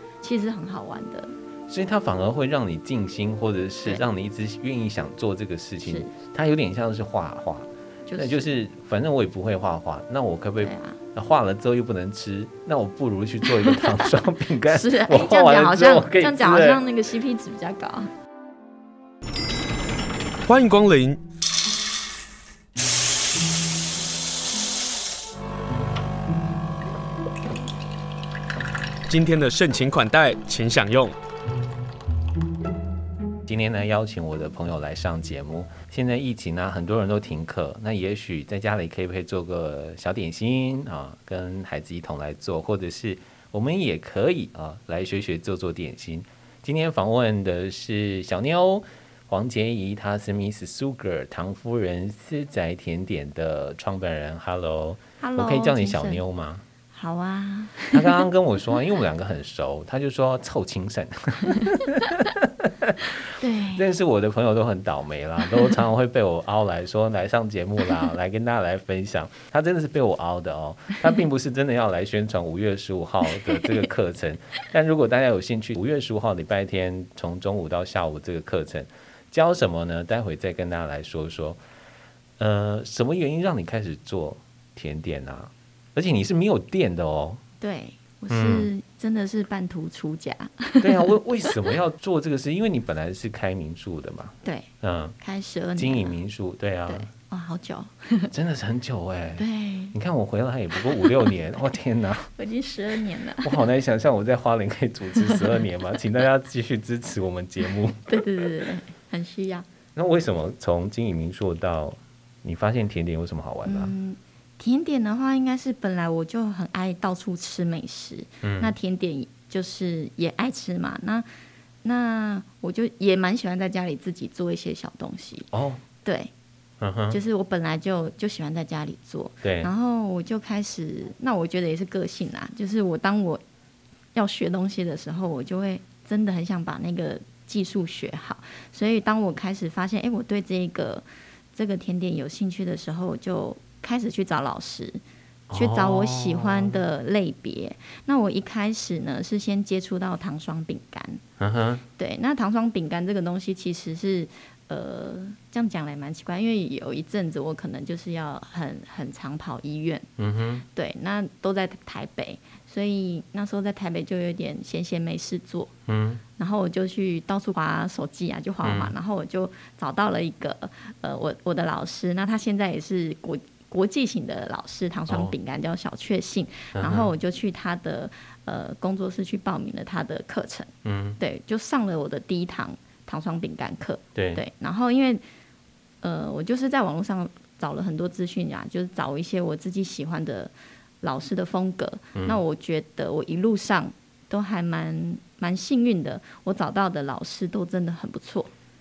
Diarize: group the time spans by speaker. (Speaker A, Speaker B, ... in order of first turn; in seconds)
Speaker A: 0.2-1.3, 5.8-6.1, 8.1-8.5, 10.6-11.0, 13.6-14.0, 14.7-18.1, 55.2-56.2, 56.9-58.3, 63.4-63.9, 87.6-91.5, 94.4-94.7, 95.2-96.2, 96.9-98.3, 99.4-100.0, 101.0-101.2, 102.4-103.6, 105.1-105.5, 108.1-109.6, 113.6-121.2, 121.8-125.5, 126.0-126.3, 127.1-133.4, 134.1-145.0, 145.5-151.2, 152.0-160.1, 160.7-165.7, 166.4-185.2, 186.0-198.5
Speaker B: 1.7-16.8, 33.5-56.6, 57.9-81.6, 82.4-87.4, 88.3-88.7, 90.8-95.2, 95.8-97.1, 98.3-102.3, 103.4-108.2, 110.0-113.9, 118.4-118.7, 125.5-125.8, 126.8-127.2, 129.4-129.7, 145.5-146.8, 151.4-151.8, 160.2-160.6, 165.9-166.2, 168.6-168.9, 175.1-175.3, 176.7-177.1, 180.8-181.2, 184.1-184.4
Speaker C: 20.4-21.2, 29.1-31.1